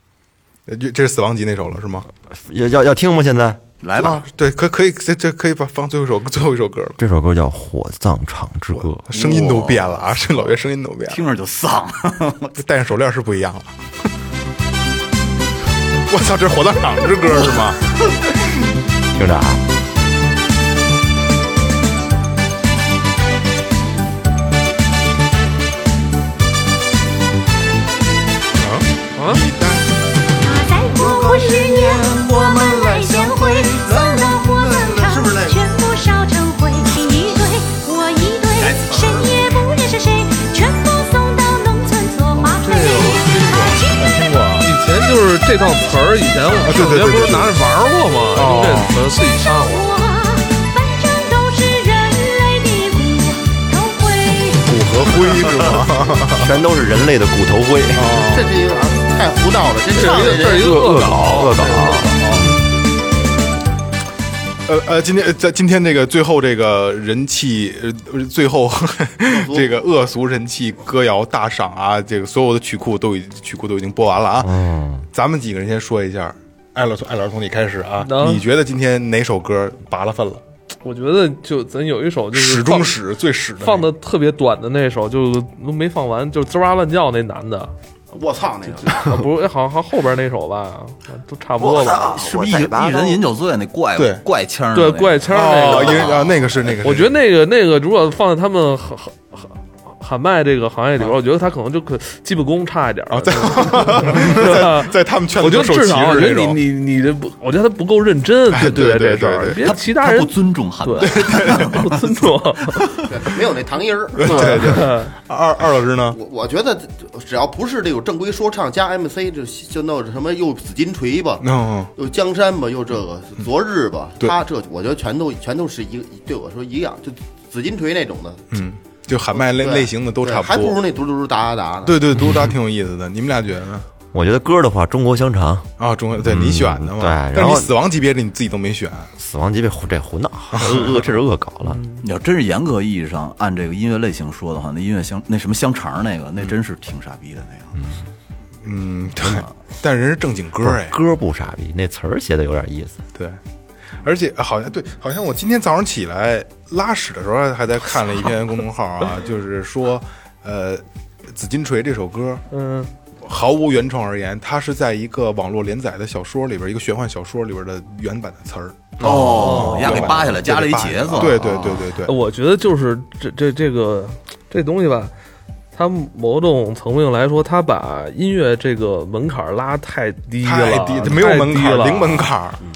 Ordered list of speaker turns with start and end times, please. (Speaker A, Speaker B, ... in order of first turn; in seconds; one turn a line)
Speaker A: 0.7-2.1
Speaker B: 2.3-3.6
Speaker C: 3.8-4.2
Speaker A: 4.0-7.0
Speaker B: 7.0-9.0
Speaker A: 8.7-11.2
Speaker C: 9.1-10.6
Speaker C: 11.1-12.6
Speaker A: 12.6-13.7
Speaker A: 16.1-17.8
Speaker B: 19.1-19.6
Speaker A: 28.6-29.9
Speaker D: 29.2-29.4
Speaker E: 30.4-44.2
Speaker C: 30.9-35.5
Speaker D: 42.5-43.7
Speaker A: 43.1-44.7
Speaker D: 44.6-49.9
Speaker A: 46.6-47.6
Speaker A: 48.3-49.0
Speaker E: 49.2-54.7
Speaker A: 54.6-56.5
Speaker B: 56.4-58.2
Speaker A: 57.9-58.5
Speaker F: 58.3-60.9
Speaker D: 59.9-62.5
Speaker B: 60.5-62.6
Speaker A: 64.7-74.5
Speaker F: 69.3-69.8
Speaker B: 74.4-75.1
Speaker A: 75.1-80.4
Speaker D: 78.0-78.4
Speaker D: 80.8-82.9
Speaker A: 82.3-83.9
Speaker D: 83.6-87.7
Speaker F: 88.1-89.2
Speaker D: 88.7-92.1
Speaker C: 91.6-96.5
Speaker B: 91.9-93.2
Speaker A: 94.0-94.2
Speaker D: 94.7-96.2
Speaker A: 95.3-97.1
Speaker D: 96.8-112.9
Speaker A: 103.1-106.6
Speaker A: 108.5-109.6
Speaker C: 109.6-112.0
Speaker A: 111.1-111.9
Speaker F: 113.1-114.9
Speaker A: 114.2-116.2
Speaker D: 114.3-115.1
Speaker F: 116.1-128.6
Speaker A: 121.4-121.9
Speaker A: 128.5-130.8
Speaker F: 129.3-132.0
Speaker A: 131.8-133.9
Speaker B: 134.1-135.7
Speaker A: 135.8-139.1
Speaker B: 136.2-137.7
Speaker B: 139.2-141.8
Speaker A: 140.5-141.0
Speaker D: 141.7-142.0
Speaker C: 142.0-147.8
Speaker A: 148.6-151.0
Speaker B: 150.6-153.0
Speaker A: 154.0-162.4
Speaker D: 162.5-162.9
Speaker A: 163.2-172.1
Speaker C: 169.0-171.7
Speaker D: 169.3-170.2
Speaker D: 172.1-175.1
Speaker D: 175.7-182.3
Speaker A: 180.4-182.6